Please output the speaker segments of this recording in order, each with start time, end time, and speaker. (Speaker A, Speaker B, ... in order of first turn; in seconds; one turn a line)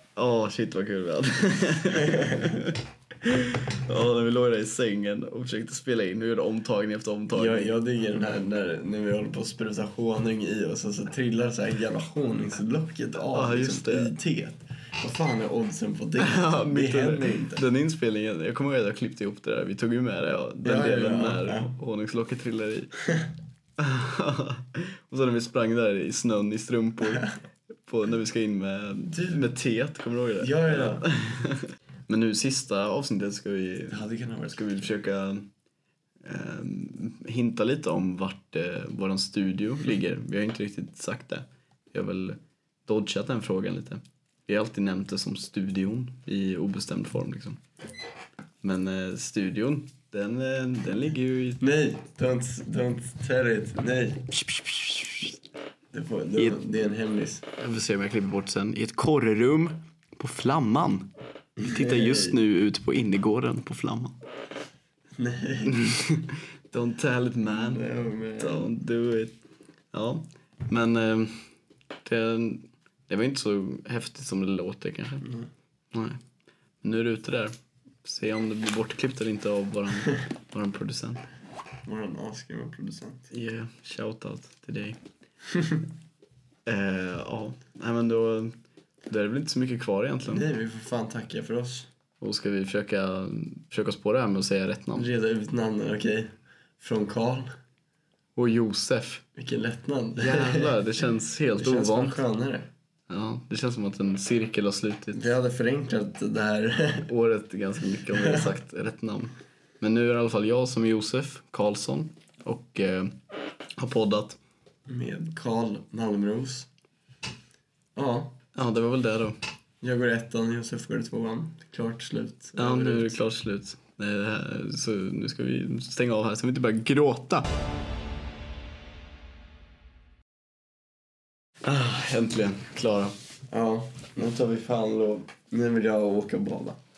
Speaker A: 0.2-7.7
Speaker B: 7.3-17.6
Speaker A: 13.3-14.1
Speaker A: 16.2-22.9
Speaker B: 20.6-21.7
Speaker A: 23.8-27.3
Speaker A: 27.9-35.5
Speaker B: 29.1-29.4
Speaker B: 30.4-31.1
Speaker B: 33.9-34.9
Speaker A: 36.2-47.6
Speaker A: 48.6-51.6
Speaker B: 51.6-54.3
Speaker A: 54.5-55.2
Speaker B: 55.9-57.5
Speaker A: 57.6-61.1
Speaker B: 61.6-62.4
Speaker A: 61.6-64.2
Speaker B: 65.2-65.8
Speaker A: 65.7-67.8
Speaker B: 67.5-68.7
Speaker A: 68.4-69.3
Speaker A: 69.9-71.5
Speaker A: 72.0-75.2
Speaker B: 75.2-75.5
Speaker A: 75.9-76.2
Speaker A: 76.8-81.2
Speaker B: 81.8-83.3
Speaker A: 83.3-85.0
Speaker B: 85.5-85.8
Speaker A: 86.7-88.5
Speaker A: 89.1-90.5
Speaker B: 90.3-91.9
Speaker A: 92.2-95.1
Speaker B: 95.0-97.5
Speaker A: 98.4-99.2
Speaker B: 99.3-100.7
Speaker A: 100.2-102.2
Speaker B: 101.6-102.7
Speaker A: 103.1-105.3
Speaker B: 105.1-107.1
Speaker A: 107.1-113.1
Speaker B: 108.1-108.5
Speaker A: 113.8-114.4
Speaker B: 114.9-116.7
Speaker B: 118.0-118.4
Speaker A: 118.5-119.4
Speaker B: 119.8-123.2
Speaker A: 122.6-127.5
Speaker A: 131.6-133.1
Speaker B: 133.5-136.8